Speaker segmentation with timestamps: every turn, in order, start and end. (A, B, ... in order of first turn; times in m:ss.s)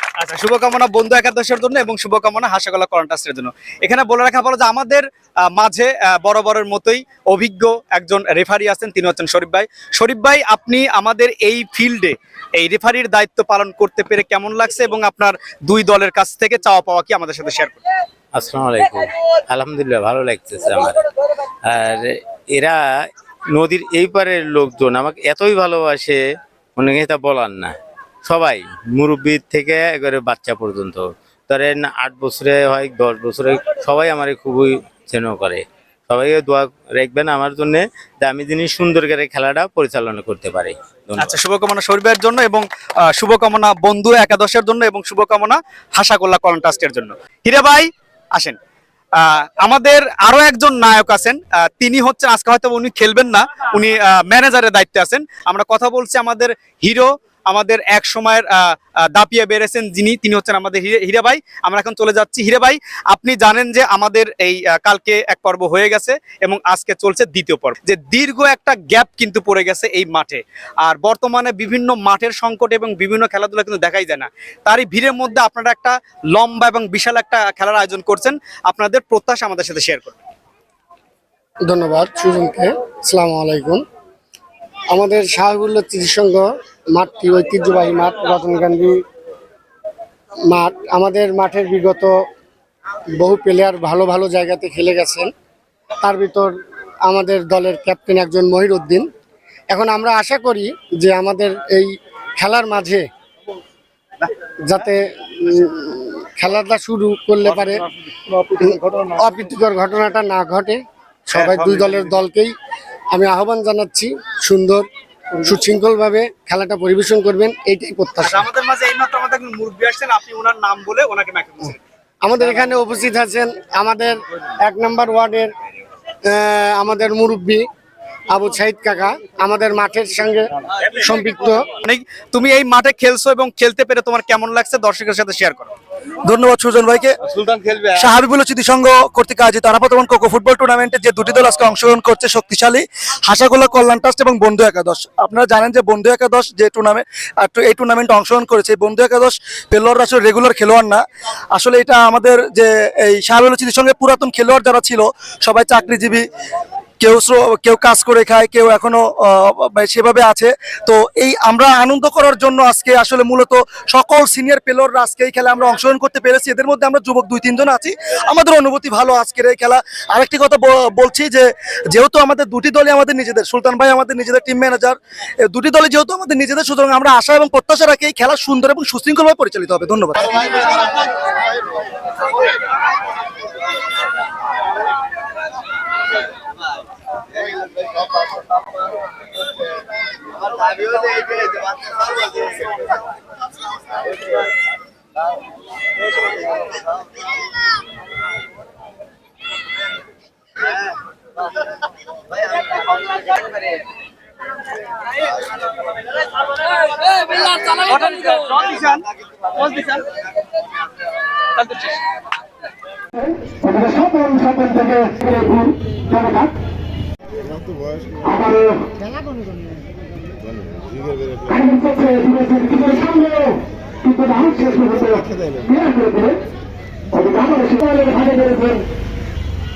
0:00.2-0:17.8 A
0:18.4-0:19.0 B
0:19.5-0:20.8 B
0:21.7-0:22.8 B
0:23.5-0:26.2 B
0:26.8-0:27.7 B
0:28.2-0:41.2 B
0:41.2-0:48.6 A
0:49.2-1:20.2 A
1:21.6-1:23.8 C
1:24.9-1:29.0 C
1:30.4-1:32.2 C
1:33.2-1:35.3 C
1:36.0-1:39.0 C
1:39.7-1:43.1 C
1:44.6-1:47.8 C
1:48.6-1:52.5 C
1:53.1-1:58.4 C
1:58.2-2:01.8 A
2:02.2-2:05.5 C
2:06.2-2:07.6 C
2:08.3-2:11.6 C
2:11.8-2:15.7 A
2:16.2-2:17.1 D
2:17.8-2:31.0 D
2:31.5-2:36.2 D
2:37.0-3:00.7 D
3:27.6-3:29.0 A
3:29.6-3:30.0 A
3:31.7-3:32.0 A
3:34.4-3:35.4 E
3:42.0-3:43.2 E
3:44.2-3:45.1 E